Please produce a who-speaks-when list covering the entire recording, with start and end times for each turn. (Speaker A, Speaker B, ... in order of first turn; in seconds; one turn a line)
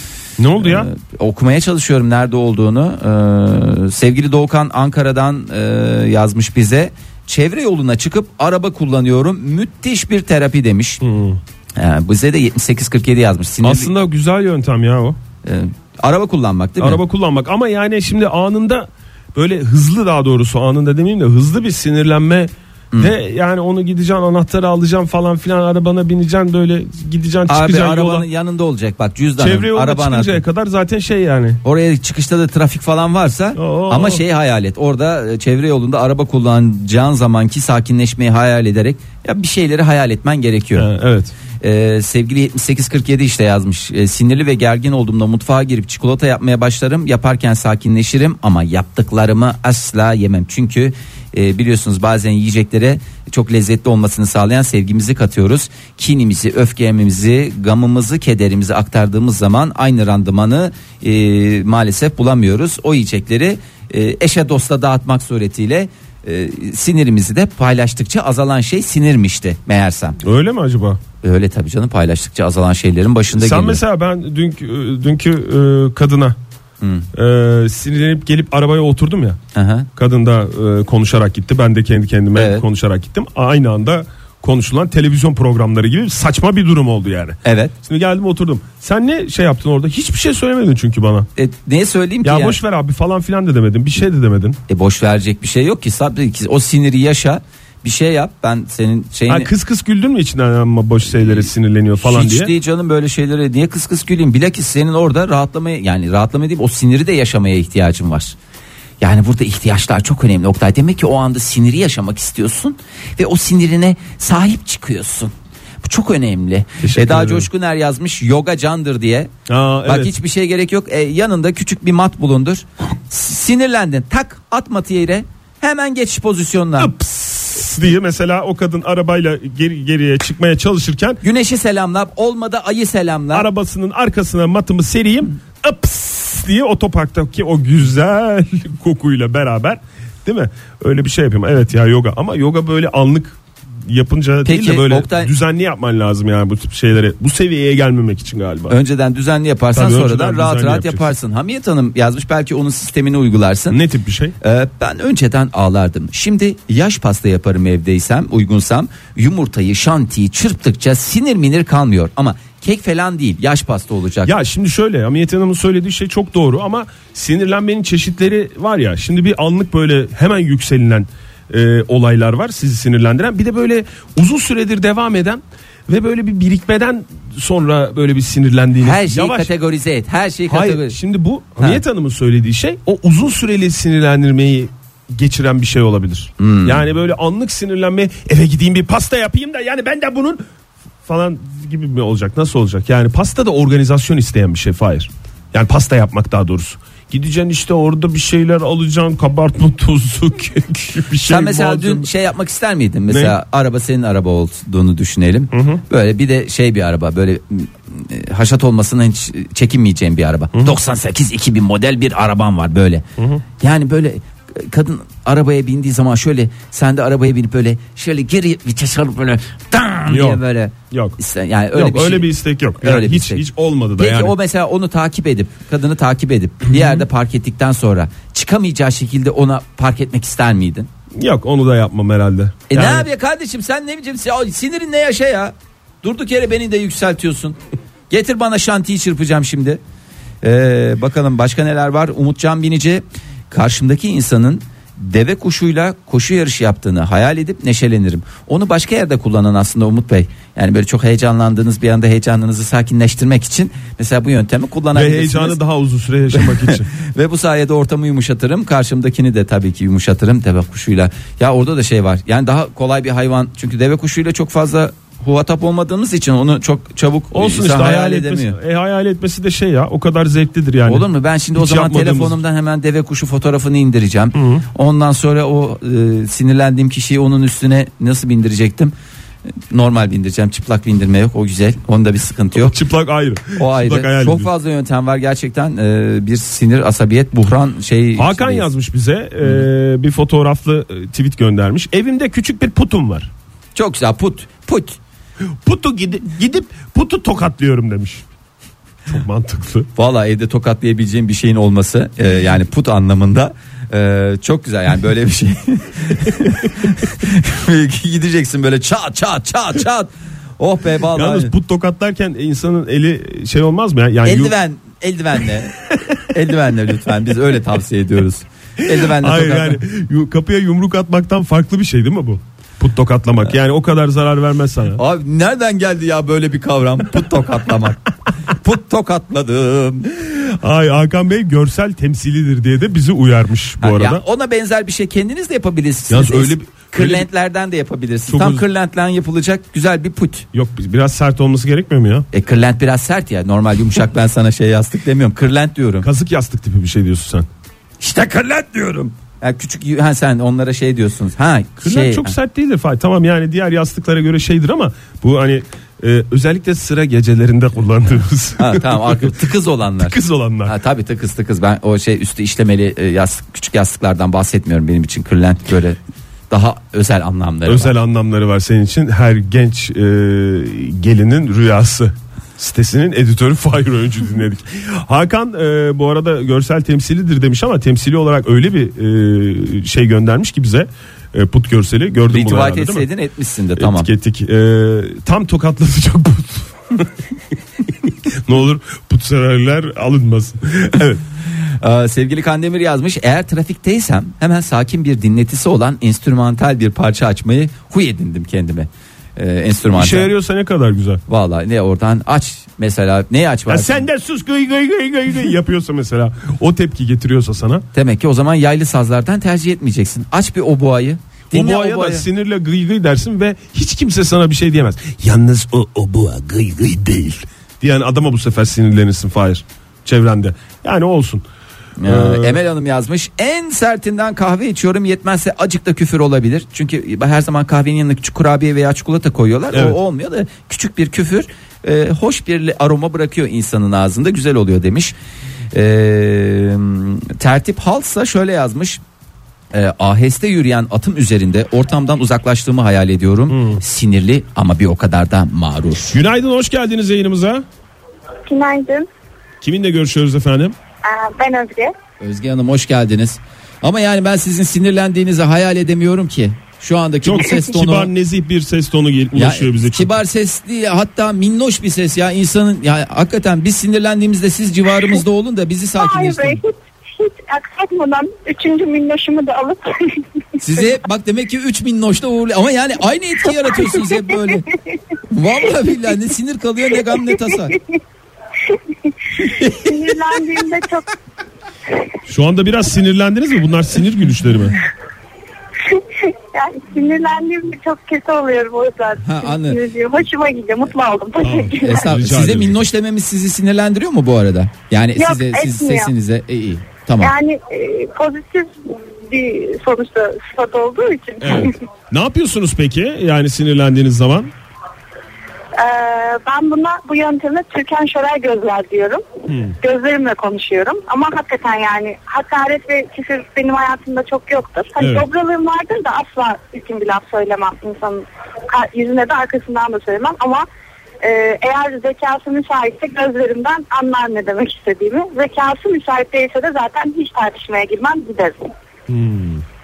Speaker A: 0.4-0.9
Speaker B: 0.6-11.0
Speaker A: 11.0-11.4
Speaker B: 11.8-13.9
Speaker A: 13.6-15.2
Speaker B: 15.4-17.0
Speaker A: 16.8-28.2
Speaker B: 27.5-30.4
Speaker A: 29.4-31.6
Speaker B: 31.6-40.9
Speaker A: 33.6-34.2
Speaker A: 40.8-41.3
Speaker B: 41.6-70.2
Speaker A: 70.2-71.0
Speaker B: 71.2-73.8
Speaker A: 73.3-76.4
Speaker B: 76.8-77.1
Speaker A: 77.1-79.4
Speaker B: 79.5-79.9
Speaker A: 80.0-91.3
Speaker B: 82.3-82.6
Speaker B: 87.4-87.7
Speaker B: 91.4-92.6
Speaker A: 92.2-94.6
Speaker B: 94.7-99.5
Speaker A: 99.3-102.5
Speaker B: 101.1-108.3
Speaker B: 109.0-119.3
Speaker A: 116.8-117.5
Speaker A: 119.5-120.1
Speaker B: 119.8-126.9
Speaker A: 126.8-131.2
Speaker B: 131.2-133.5
Speaker A: 133.3-148.8
Speaker B: 144.4-145.3
Speaker B: 148.7-153.8
Speaker A: 149.7-151.1
Speaker A: 153.7-154.3
Speaker B: 154.4-164.3
Speaker A: 164.3-179.5
Speaker B: 178.8-181.0
Speaker A: 180.5-190.4
Speaker B: 186.4-186.8
Speaker A: 191.1-202.1
Speaker B: 201.2-213.1
Speaker A: 203.1-203.3
Speaker A: 205.5-205.8
Speaker A: 213.2-213.4
Speaker B: 213.6-223.4
Speaker A: 220.1-220.4
Speaker A: 220.9-221.2
Speaker A: 221.7-224.3
Speaker B: 224.0-230.9
Speaker A: 226.7-227.0
Speaker A: 231.2-233.1
Speaker B: 232.7-237.6
Speaker B: 238.1-239.8
Speaker B: 240.4-255.6
Speaker A: 254.9-256.9
Speaker B: 256.3-268.6
Speaker A: 267.3-272.4
Speaker B: 270.9-278.9
Speaker A: 274.3-274.6
Speaker B: 279.7-282.8
Speaker A: 282.6-284.5
Speaker B: 283.6-288.7
Speaker A: 288.2-293.3
Speaker B: 293.8-295.0
Speaker A: 295.6-298.2
Speaker A: 299.1-299.9
Speaker B: 300.0-311.5
Speaker A: 311.1-314.6
Speaker B: 314.2-315.8
Speaker B: 316.3-319.8
Speaker A: 318.8-325.0
Speaker B: 325.0-330.2
Speaker A: 330.3-334.2
Speaker B: 333.8-340.5
Speaker A: 336.1-337.3
Speaker A: 338.3-338.6
Speaker A: 340.5-342.3
Speaker B: 342.3-346.1
Speaker A: 346.0-347.5
Speaker B: 348.0-352.3
Speaker A: 351.8-359.3
Speaker B: 358.6-366.0
Speaker A: 360.0-360.8
Speaker B: 366.5-367.9
Speaker A: 367.7-383.1
Speaker B: 382.3-384.1
Speaker A: 383.8-387.1
Speaker A: 388.0-391.2
Speaker B: 391.8-400.3
Speaker A: 399.9-401.2
Speaker B: 401.3-404.0
Speaker A: 403.7-407.9
Speaker B: 407.9-412.2
Speaker A: 411.5-421.4
Speaker B: 422.0-435.1
Speaker A: 422.1-422.6
Speaker A: 429.7-430.0
Speaker B: 435.7-439.0
Speaker B: 439.7-446.2
Speaker A: 443.5-443.8
Speaker A: 446.1-447.6
Speaker C: 448.5-449.1
Speaker A: 449.6-450.8
Speaker C: 451.0-451.9
Speaker B: 452.2-458.1
Speaker A: 457.2-460.2
Speaker B: 459.4-466.6
Speaker C: 466.0-470.9
Speaker B: 470.6-474.7
Speaker C: 473.6-474.2
Speaker B: 475.3-477.8
Speaker C: 477.1-478.0
Speaker C: 478.6-481.1
Speaker B: 479.4-480.4
Speaker A: 482.3-484.8
Speaker C: 485.8-492.0
Speaker B: 489.2-489.8
Speaker A: 491.4-492.8
Speaker B: 491.8-497.4
Speaker C: 495.2-496.1
Speaker C: 497.2-501.8
Speaker A: 501.4-504.5
Speaker C: 505.8-509.2
Speaker A: 509.5-509.8
Speaker C: 509.8-520.7
Speaker A: 515.0-515.3
Speaker C: 521.2-528.7
Speaker A: 529.1-529.6